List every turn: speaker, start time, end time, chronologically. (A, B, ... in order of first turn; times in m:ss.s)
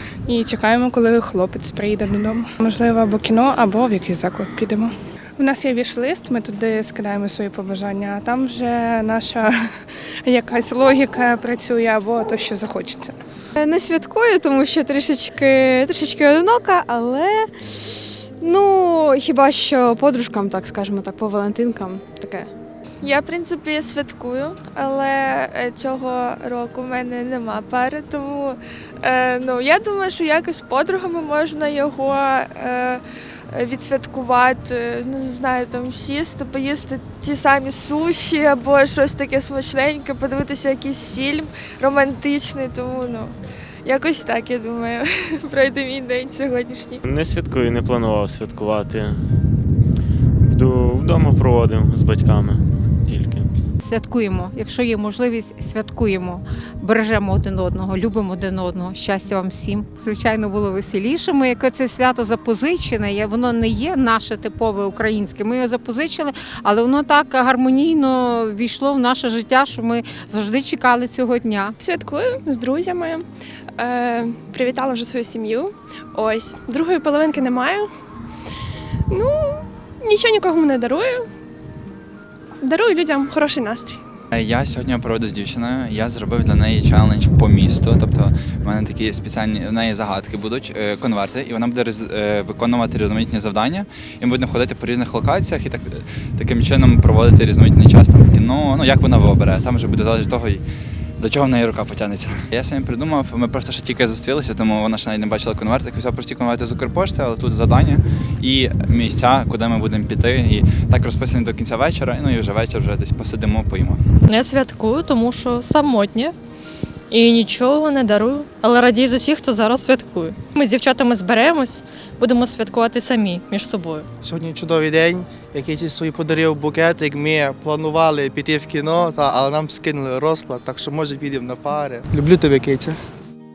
0:00.3-0:09.6 A
0:10.2-0:13.1 A
0:13.6-0:17.5 B
0:18.4-0:22.5 B
0:23.0-0:47.0 C
0:47.1-0:49.2 D
0:50.5-0:53.5 D
0:53.8-1:11.8 E
1:11.8-1:13.2 F
1:13.8-1:17.9 F
1:19.1-1:21.3 F
1:22.6-1:24.0 F
1:24.3-1:40.6 G
1:41.2-1:54.0 G
1:54.3-1:56.3 H
1:57.1-2:04.1 H
2:04.2-2:13.0 I